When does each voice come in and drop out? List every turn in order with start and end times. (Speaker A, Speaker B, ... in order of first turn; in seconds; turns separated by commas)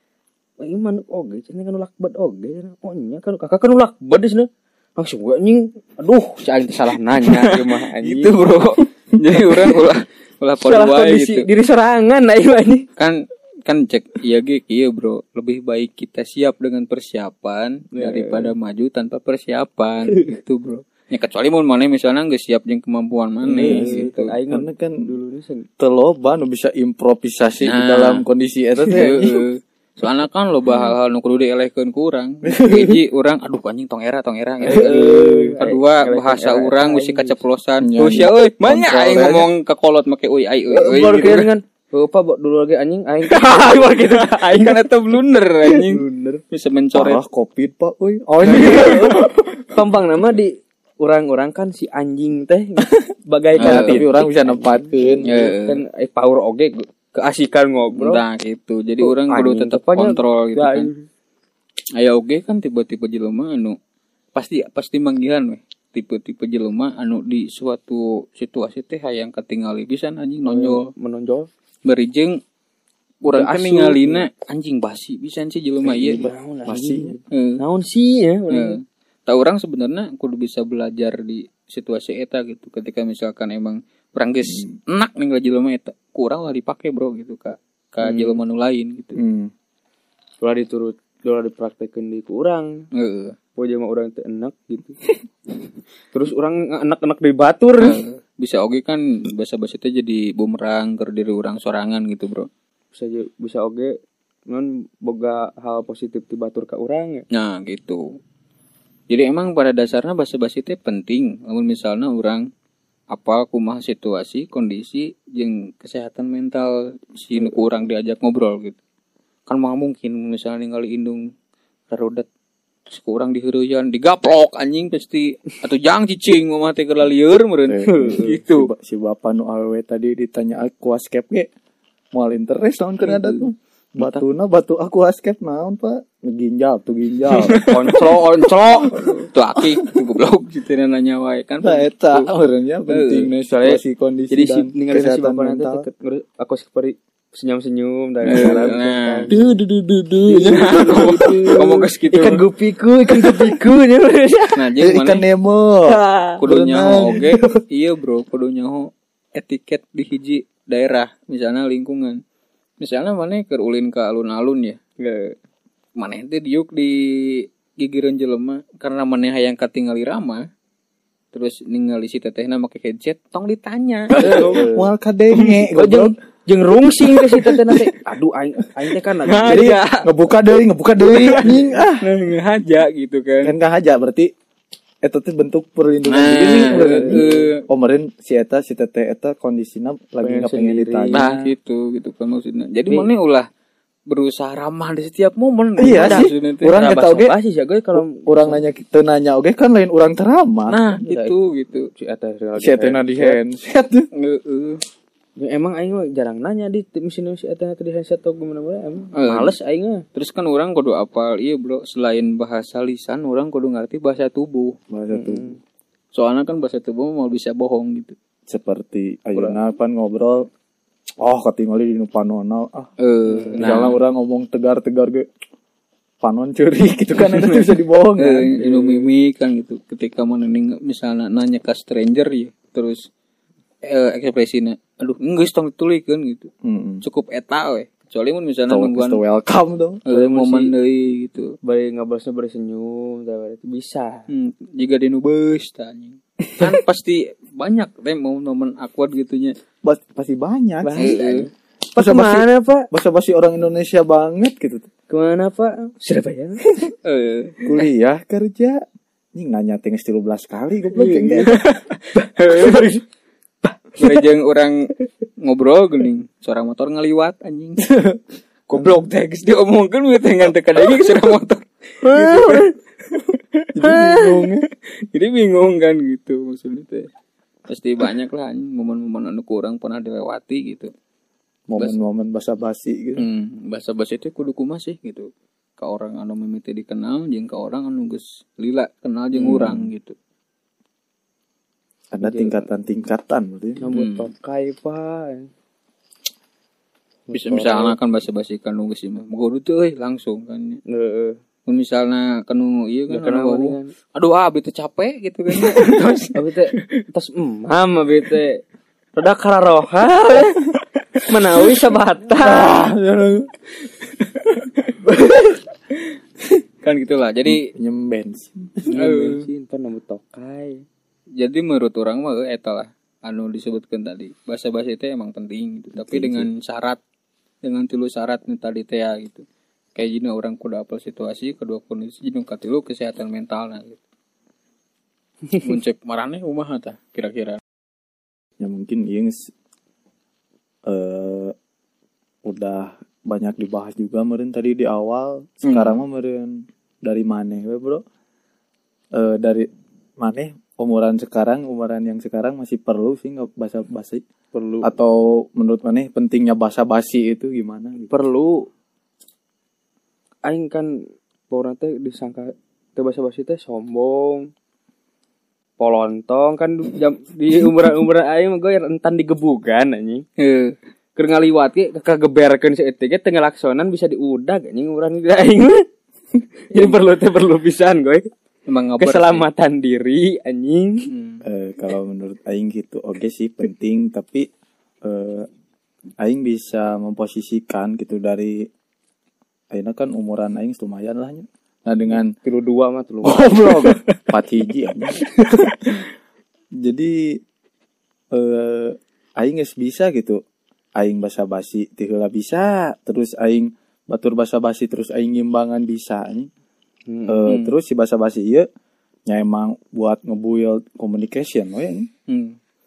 Speaker A: 0.6-8.4, Speaker B: 6.4-11.5, Speaker A: 10.6-12.9, Speaker B: 13.0-24.3, Speaker A: 17.9-18.5, Speaker A: 23.4-25.7, Speaker C: 23.5-25.1, Speaker C: 25.8-29.4, Speaker B: 27.6-28.2, Speaker B: 28.9-41.5, Speaker C: 32.4-33.0, Speaker A: 34.6-37.4, Speaker C: 34.9-35.6, Speaker C: 37.8-39.5, Speaker A: 40.7-44.9, Speaker B: 43.2-47.2, Speaker A: 45.7-46.2, Speaker C: 46.9-49.4, Speaker A: 48.4-58.2, Speaker B: 53.6-54.0, Speaker C: 53.6-55.3, Speaker B: 55.2-55.8, Speaker B: 57.9-60.9, Speaker A: 59.0-61.0, Speaker B: 62.0-63.8, Speaker B: 64.3-70.9, Speaker A: 70.5-71.5, Speaker B: 71.8-72.4, Speaker B: 73.2-76.3, Speaker A: 73.3-74.2, Speaker A: 75.9-78.8, Speaker C: 76.0-77.2, Speaker B: 77.3-77.6, Speaker B: 78.5-89.2, Speaker C: 84.5-84.8, Speaker C: 89.2-89.5, Speaker A: 90.4-92.8, Speaker B: 92.9-93.3, Speaker A: 93.6-95.0, Speaker A: 96.1-98.0, Speaker B: 97.8-102.5, Speaker A: 102.9-104.0, Speaker A: 104.5-107.2, Speaker B: 107.3-108.1, Speaker B: 109.1-112.5, Speaker B: 113.1-118.8, Speaker B: 119.5-121.2, Speaker B: 121.9-122.3, Speaker B: 122.9-128.7, Speaker C: 127.7-131.5, Speaker A: 127.9-128.3, Speaker C: 132.1-138.1, Speaker A: 133.0-133.4, Speaker B: 137.3-142.3, Speaker A: 137.6-139.1, Speaker C: 138.7-139.6, Speaker C: 141.6-145.8, Speaker B: 142.9-143.3, Speaker A: 143.5-149.6, Speaker B: 148.2-149.3, Speaker C: 148.3-148.7, Speaker C: 149.3-151.6, Speaker A: 150.3-154.6, Speaker B: 150.4-152.4, Speaker C: 153.1-153.6, Speaker B: 154.6-155.2, Speaker C: 154.8-157.6, Speaker A: 155.9-156.4, Speaker B: 156.4-162.2, Speaker B: 162.8-164.8, Speaker A: 165.0-165.3, Speaker B: 166.0-170.4, Speaker B: 171.3-174.6, Speaker A: 174.2-174.9, Speaker C: 174.2-176.1, Speaker A: 175.7-179.8, Speaker B: 179.2-180.1, Speaker C: 179.4-182.0, Speaker B: 181.0-183.5, Speaker C: 183.4-184.3, Speaker C: 185.0-191.5, Speaker B: 186.1-187.6, Speaker A: 186.5-187.5, Speaker A: 190.2-191.2, Speaker B: 191.1-193.5, Speaker B: 194.1-196.8, Speaker C: 195.8-197.3, Speaker A: 195.9-198.6, Speaker C: 197.9-201.0, Speaker B: 200.7-201.9, Speaker A: 201.1-201.3, Speaker A: 201.9-203.4, Speaker C: 202.6-204.1, Speaker B: 204.1-204.8, Speaker A: 205.4-210.0, Speaker B: 209.2-209.5, Speaker B: 210.1-214.7, Speaker C: 214.9-215.6, Speaker A: 215.1-215.6, Speaker B: 216.1-218.1, Speaker C: 218.5-220.4, Speaker C: 221.2-222.9, Speaker B: 223.0-224.0, Speaker A: 223.3-223.8, Speaker C: 223.6-225.2, Speaker C: 226.2-228.5, Speaker B: 227.2-233.1, Speaker A: 228.5-229.1, Speaker B: 233.8-236.5, Speaker C: 236.6-237.0, Speaker B: 237.0-239.2, Speaker C: 238.7-240.0, Speaker B: 240.1-241.5, Speaker A: 240.1-240.7, Speaker A: 241.6-244.3, Speaker B: 244.3-249.5, Speaker C: 249.8-251.2, Speaker A: 250.8-252.9, Speaker B: 251.0-251.5, Speaker C: 251.9-254.9, Speaker A: 255.1-256.9, Speaker B: 257.0-257.6, Speaker C: 257.6-258.8, Speaker C: 259.3-261.6, Speaker A: 260.9-261.6, Speaker B: 261.4-263.0, Speaker A: 262.1-262.9, Speaker B: 264.0-264.9, Speaker B: 265.4-267.9, Speaker B: 268.7-273.7, Speaker A: 272.0-272.7, Speaker C: 273.7-274.6, Speaker A: 274.0-274.4, Speaker B: 275.1-277.1, Speaker B: 277.7-280.9, Speaker C: 281.7-283.2, Speaker B: 283.2-290.1, Speaker C: 289.3-289.8, Speaker C: 292.1-293.8, Speaker A: 292.2-292.6, Speaker A: 293.8-295.5, Speaker B: 293.9-294.3, Speaker A: 297.3-297.9, Speaker B: 297.3-300.8, Speaker A: 300.9-301.4, Speaker B: 301.7-306.4, Speaker A: 303.1-303.9, Speaker A: 306.3-308.6, Speaker A: 309.1-310.6, Speaker A: 311.2-312.8, Speaker C: 312.4-313.5, Speaker B: 314.3-315.6, Speaker B: 316.8-317.7, Speaker C: 317.5-318.9, Speaker A: 318.9-320.8, Speaker B: 318.9-319.5, Speaker B: 321.4-327.0, Speaker C: 325.9-326.5, Speaker B: 327.6-334.0, Speaker B: 335.6-337.6, Speaker C: 338.6-339.5, Speaker C: 340.9-341.5, Speaker C: 342.4-348.0, Speaker B: 345.6-346.0, Speaker C: 349.1-349.7, Speaker C: 350.2-354.2, Speaker A: 354.5-354.9, Speaker C: 354.8-358.1, Speaker A: 358.1-358.7, Speaker A: 360.4-360.9, Speaker A: 361.5-364.5, Speaker A: 365.8-370.3, Speaker B: 370.4-370.8, Speaker A: 371.1-375.8, Speaker A: 376.7-378.3, Speaker B: 378.7-379.4, Speaker A: 379.0-381.1, Speaker B: 381.1-381.4, Speaker C: 381.4-384.5, Speaker C: 385.0-385.5, Speaker C: 386.2-388.7, Speaker C: 389.7-392.3, Speaker A: 392.4-393.4, Speaker C: 393.2-395.2, Speaker B: 393.8-394.2, Speaker B: 395.1-395.7, Speaker C: 396.8-397.4, Speaker C: 398.3-400.4, Speaker C: 401.0-406.5, Speaker A: 407.1-407.6, Speaker C: 407.3-408.7, Speaker B: 407.5-407.7, Speaker C: 409.3-412.1, Speaker B: 412.3-412.6